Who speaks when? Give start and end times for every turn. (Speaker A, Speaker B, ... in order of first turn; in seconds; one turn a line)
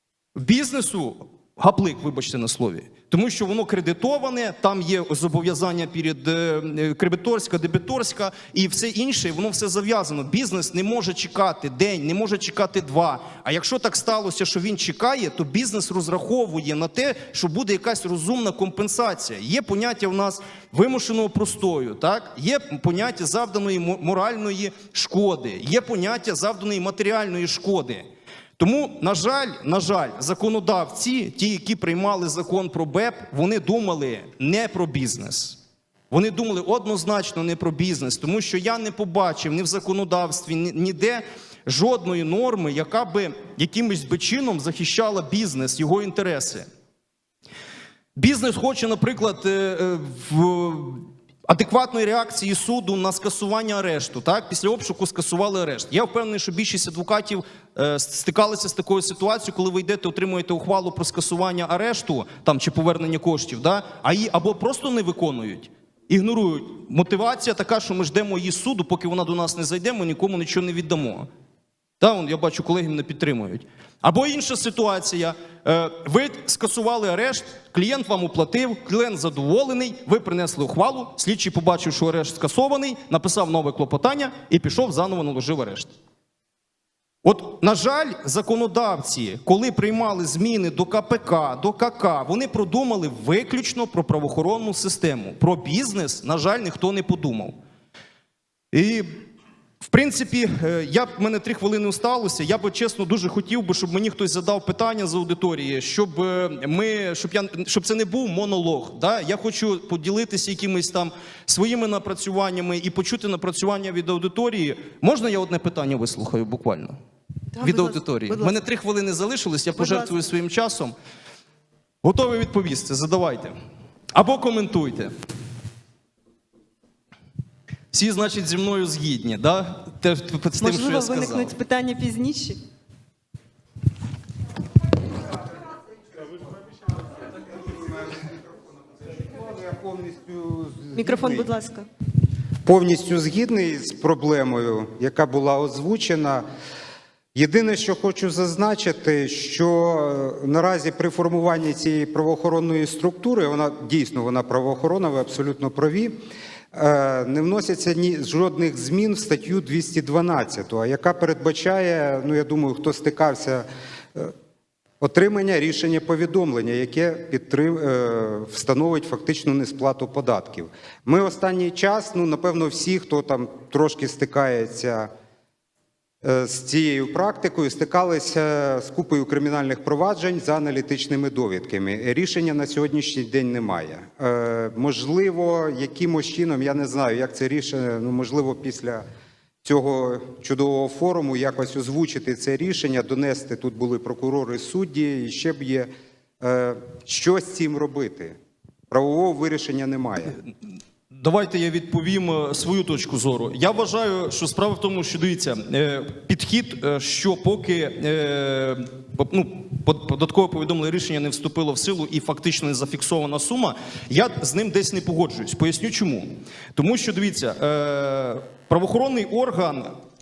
Speaker A: 0.4-28.1
Speaker A: 28.6-35.6
Speaker A: 36.1-46.7
Speaker A: 48.2-71.3
Speaker A: 72.0-85.9
Speaker A: 87.2-97.6
Speaker A: 98.7-99.1
Speaker A: 99.8-117.0
Speaker B: 117.6-118.5
Speaker A: 117.6-120.9
Speaker B: 119.8-120.1
Speaker A: 122.0-123.5
Speaker A: 124.1-125.1
Speaker A: 127.9-131.5
Speaker B: 130.6-132.6
Speaker C: 137.5-138.3
Speaker C: 139.1-141.5
Speaker B: 140.9-141.9
Speaker C: 142.7-146.4
Speaker C: 147.3-156.2
Speaker C: 156.7-164.3
Speaker C: 165.0-175.1
Speaker C: 176.2-189.0
Speaker C: 189.6-195.9
Speaker C: 196.4-198.4
Speaker C: 198.9-200.4
Speaker A: 201.1-219.9